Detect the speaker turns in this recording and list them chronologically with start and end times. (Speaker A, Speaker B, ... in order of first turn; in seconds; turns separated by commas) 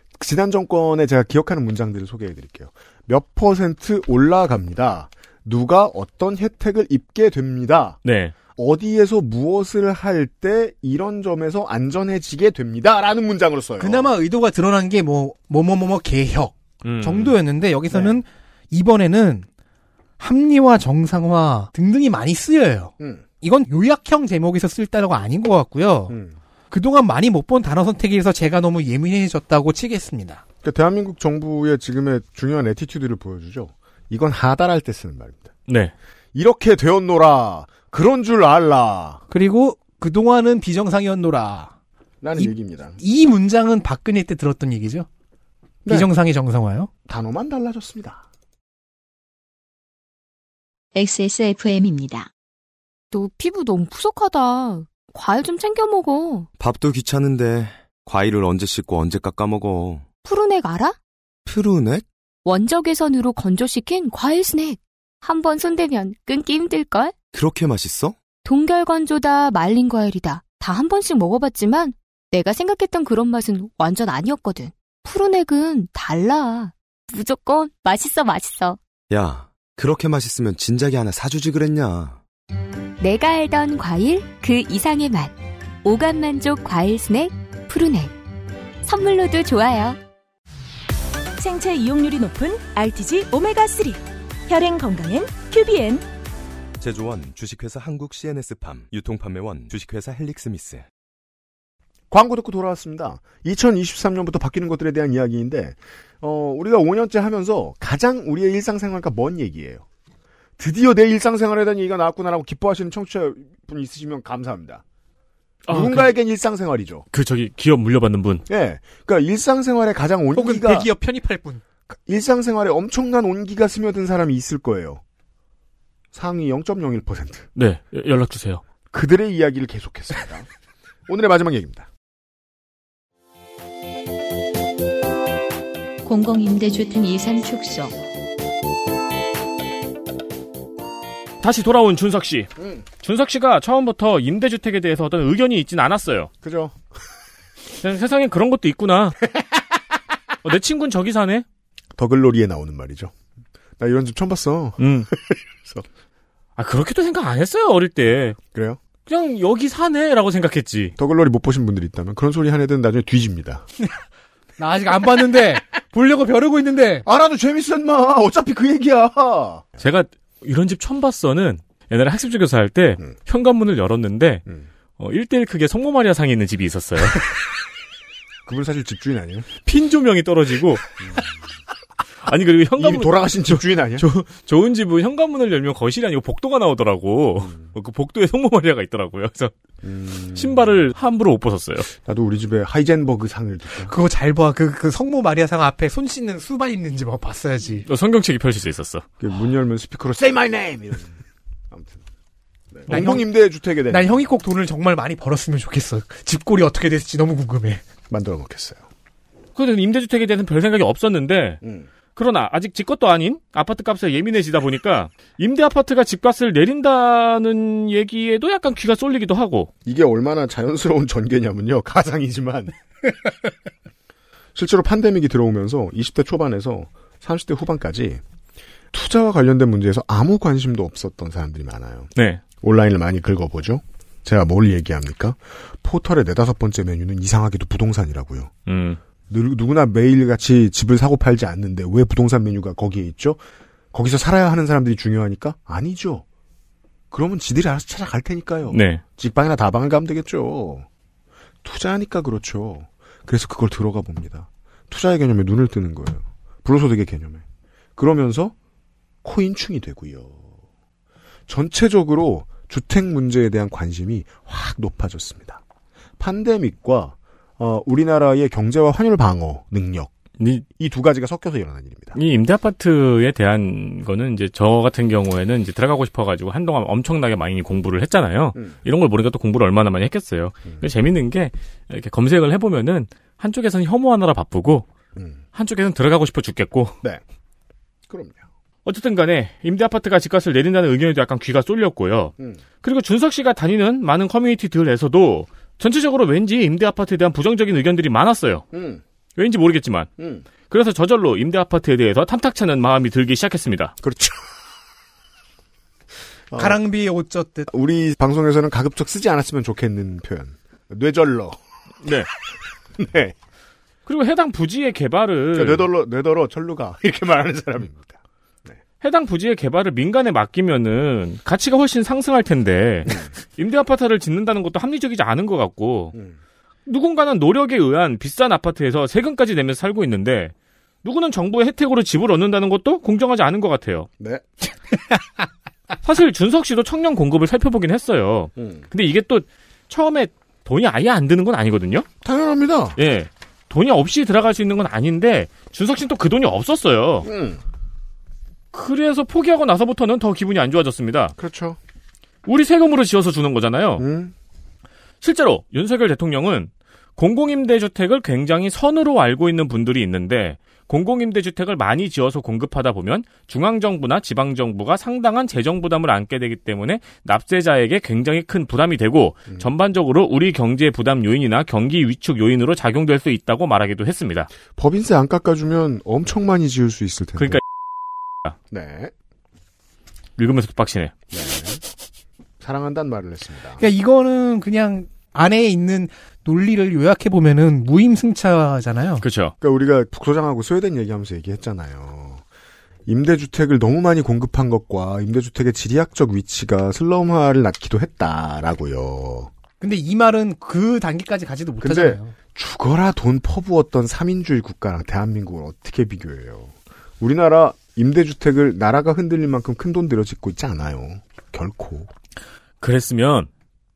Speaker A: 0.2-8.0, Speaker B: 8.0-8.3, Speaker A: 8.6-14.1, Speaker C: 13.8-19.5, Speaker B: 16.8-17.4, Speaker A: 17.9-18.2, Speaker C: 20.2-26.2, Speaker A: 23.0-23.2, Speaker A: 26.1-26.4, Speaker C: 26.7-30.4, Speaker A: 30.6-35.5, Speaker B: 35.7-35.9, Speaker A: 36.3-39.2, Speaker C: 39.3-41.7, Speaker A: 42.2-43.0, Speaker C: 42.4-45.1, Speaker A: 45.8-46.1, Speaker C: 45.9-46.9, Speaker A: 47.1-48.2, Speaker D: 51.0-52.3, Speaker E: 53.1-56.5, Speaker F: 56.6-60.0, Speaker E: 60.2-61.0, Speaker F: 61.5-62.1, Speaker E: 62.5-67.2, Speaker F: 67.3-68.2, Speaker E: 68.5-78.8, Speaker F: 79.1-82.2, Speaker E: 83.0-88.2, Speaker E: 88.8-90.0, Speaker G: 91.4-96.1, Speaker F: 96.8-100.8, Speaker A: 102.1-109.8, Speaker A: 110.6-114.8, Speaker B: 115.7-116.1, Speaker A: 115.7-117.1, Speaker B: 117.1-118.5, Speaker A: 118.5-120.9, Speaker C: 120.3-121.6, Speaker A: 121.9-125.0, Speaker A: 126.1-127.5, Speaker B: 127.5-128.6, Speaker A: 128.9-130.5, Speaker A: 131.1-131.9, Speaker D: 136.0-138.0, Speaker B: 141.4-146.3, Speaker A: 146.4-146.8, Speaker B: 147.8-149.2, Speaker B: 150.4-151.4, Speaker A: 152.0-153.1, Speaker A: 153.8-155.9, Speaker B: 154.8-155.1, Speaker B: 156.6-158.4, Speaker A: 158.5-158.8, Speaker B: 159.1-160.9, Speaker A: 161.0-163.7, Speaker C: 164.6-167.1, Speaker A: 167.1-169.7, Speaker B: 169.8-174.4, Speaker B: 175.0-177.3, Speaker A: 178.5-179.5, Speaker B: 179.7-181.0, Speaker B: 182.2-189.5, Speaker A: 182.8-184.1, Speaker A: 189.8-190.7, Speaker B: 190.3-191.9, Speaker A: 191.9-193.9, Speaker C: 193.8-197.9, Speaker B: 197.9-199.1, Speaker A: 199.2-201.2, Speaker A: 201.7-202.0, Speaker A: 202.7-204.2, Speaker C: 202.9-203.3, Speaker C: 203.9-207.8, Speaker A: 208.1-208.8, Speaker B: 209.6-211.6, Speaker A: 211.6-211.9, Speaker B: 212.2-219.7, Speaker A: 219.9-222.7, Speaker A: 224.6-228.2, Speaker A: 228.9-232.1, Speaker B: 232.2-232.4, Speaker A: 232.6-238.5, Speaker B: 238.7-239.0, Speaker A: 239.3-243.4, Speaker A: 243.9-246.2, Speaker A: 247.1-250.9, Speaker B: 248.7-249.0, Speaker A: 251.6-257.4, Speaker A: 258.0-258.6, Speaker A: 259.2-260.5, Speaker A: 261.5-265.6, Speaker A: 266.2-270.1, Speaker B: 270.4-270.6, Speaker A: 270.8-272.2, Speaker B: 272.1-284.9, Speaker B: 285.6-287.0, Speaker A: 288.1-288.4, Speaker B: 288.9-298.7, Speaker A: 298.7-299.0, Speaker B: 299.4-300.1, Speaker A: 300.2-300.4, Speaker B: 300.7-303.9, Speaker A: 304.0-304.4, Speaker A: 306.5-306.8, Speaker C: 306.6-307.7, Speaker A: 307.7-311.6, Speaker A: 313.0-313.4, Speaker B: 314.1-315.9, Speaker A: 315.5-318.8, Speaker B: 319.0-326.1, Speaker B: 326.9-330.5, Speaker B: 331.0-334.1, Speaker A: 334.2-334.5, Speaker B: 336.0-342.1, Speaker A: 338.6-338.9, Speaker A: 342.2-343.0, Speaker B: 343.0-347.3, Speaker A: 347.2-347.6, Speaker B: 348.7-351.4, Speaker A: 351.4-351.8, Speaker B: 352.4-354.1, Speaker A: 354.0-354.3, Speaker B: 355.2-374.5, Speaker A: 374.7-377.6, Speaker B: 377.4-377.6, Speaker A: 378.7-379.1, Speaker B: 380.4-381.1, Speaker A: 381.3-381.8, Speaker A: 382.6-383.8, Speaker C: 383.8-389.2, Speaker B: 389.2-389.5, Speaker A: 389.6-392.4, Speaker A: 393.1-399.5, Speaker C: 399.8-402.3, Speaker A: 401.8-412.1, Speaker B: 412.8-413.5